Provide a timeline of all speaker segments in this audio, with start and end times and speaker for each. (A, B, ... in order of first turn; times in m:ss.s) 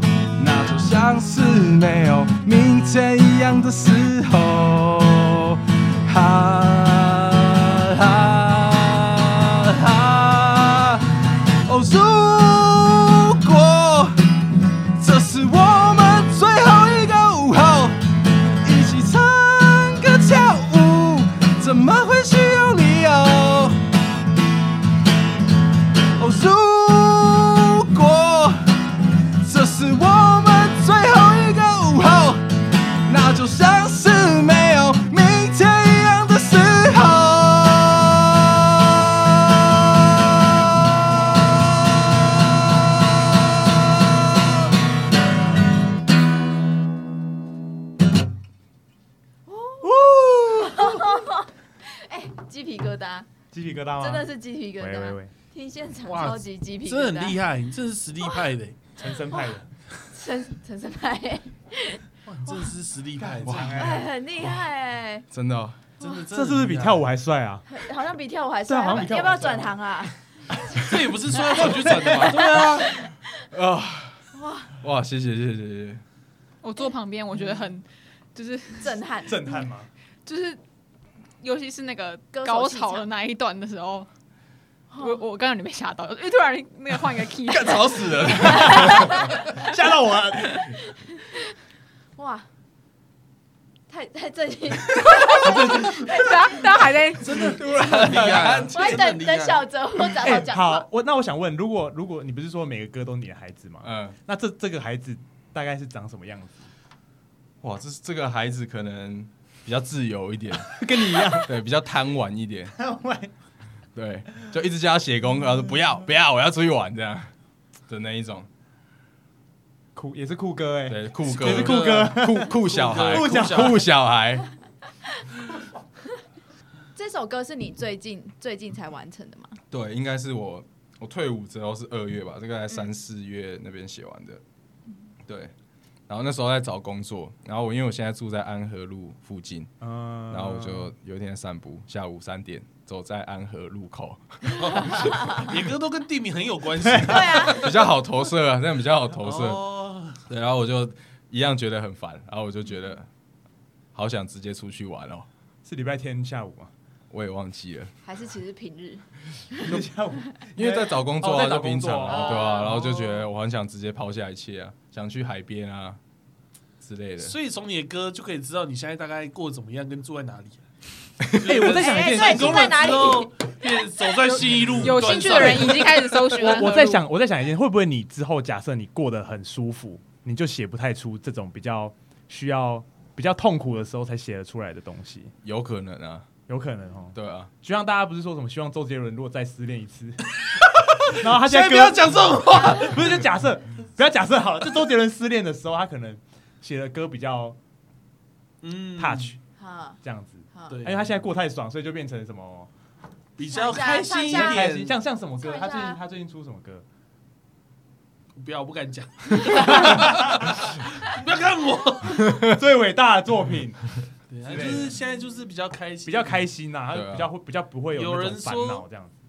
0:00.4-0:11.1 A
0:11.6-0:14.2 A
0:15.0-0:18.0 A
0:18.6-0:23.8 A
0:26.2-0:28.6 A
0:29.4-0:32.4 A
0:33.0-0:39.2 A
0:49.5-0:50.0 B
0:49.8-0:51.1 C
0:50.5-0:53.3 B
0:53.5-0:55.3 C
0:54.0-0:57.4 B
0:56.0-0:58.9 D
0:59.0-0:59.7 C
0:59.3-0:59.6 B
1:00.1-1:02.0 B
1:02.2-1:04.0 D
1:03.2-1:04.0 C
1:03.4-1:03.8 E
1:03.7-1:05.2 B
1:05.3-1:05.8 E
1:06.0-1:07.1 D
1:06.3-1:07.6 C
1:07.7-1:10.1 B
1:08.6-1:09.8 C
1:10.7-1:12.9 D
1:11.5-1:12.8 C
1:13.5-1:14.2 E
1:14.3-1:14.7 B
1:14.8-1:16.0 E
1:16.6-1:18.9 F
1:18.8-1:19.6 B
1:19.3-1:19.9 C
1:20.2-1:20.6 F
1:21.4-1:24.1 F
1:22.3-1:23.1 B
1:24.9-1:25.2 B
1:25.0-1:29.6 F
1:27.5-1:29.3 E
1:28.5-1:30.7 C
1:32.2-1:32.5 B
1:33.9-1:36.2 B
1:35.3-1:37.6 F
1:35.4-1:35.9 C
1:37.2-1:39.7 D
1:37.4-1:39.1 E
1:38.7-1:40.8 B
1:40.2-1:46.7 C
1:43.8-1:44.2 E
1:47.6-1:52.7 E
1:50.6-1:51.5 C
1:52.7-1:53.3 C
1:53.9-1:57.3 E
1:57.9-1:58.5 E
1:59.9-2:03.9 C
2:00.9-2:04.5 E
2:01.2-2:03.8 D
2:07.0-2:09.6 B
2:09.7-2:14.4 E
2:15.3-2:15.5 E
2:16.1-2:19.7 E
2:19.8-2:20.9 C
2:20.3-2:25.0 E
2:24.5-2:27.9 D
2:26.8-2:27.2 C
2:27.0-2:27.6 B
2:27.5-2:29.6 E
2:29.2-2:30.2 D
2:30.2-2:33.1 E
2:33.9-2:35.3 E
2:35.6-2:36.7 C
2:37.1-2:37.9 E
2:38.0-2:39.7 B
2:39.6-2:43.1 C
2:40.5-2:46.0 E
2:42.1-2:42.9 B
2:46.8-2:47.3 E
2:47.2-2:50.6 D
2:51.3-2:56.7 D
2:51.4-2:53.2 C
2:51.6-2:53.3 B
2:54.8-2:57.0 F
2:54.9-2:55.8 C
2:56.3-3:05.3 C
3:05.4-3:06.3 E
3:06.5-3:10.2 C
3:07.1-3:07.5 E
3:10.5-3:13.2 D
3:11.0-3:17.6 C
3:18.6-3:19.4 D
3:19.0-3:19.4 C
3:19.6-3:20.0 B
3:20.0-3:22.7 C
3:20.7-3:21.1 D
3:23.4-3:24.9 D
3:23.5-3:24.7 B
3:24.1-3:26.8 C
3:25.4-3:26.0 B
3:28.4-3:32.4 D
3:29.5-3:30.4 C
3:32.4-3:33.8 C
3:34.3-3:36.4 D
3:34.4-3:35.0 C
3:36.0-3:39.2 C
3:36.9-3:37.3 E
3:37.9-3:38.8 D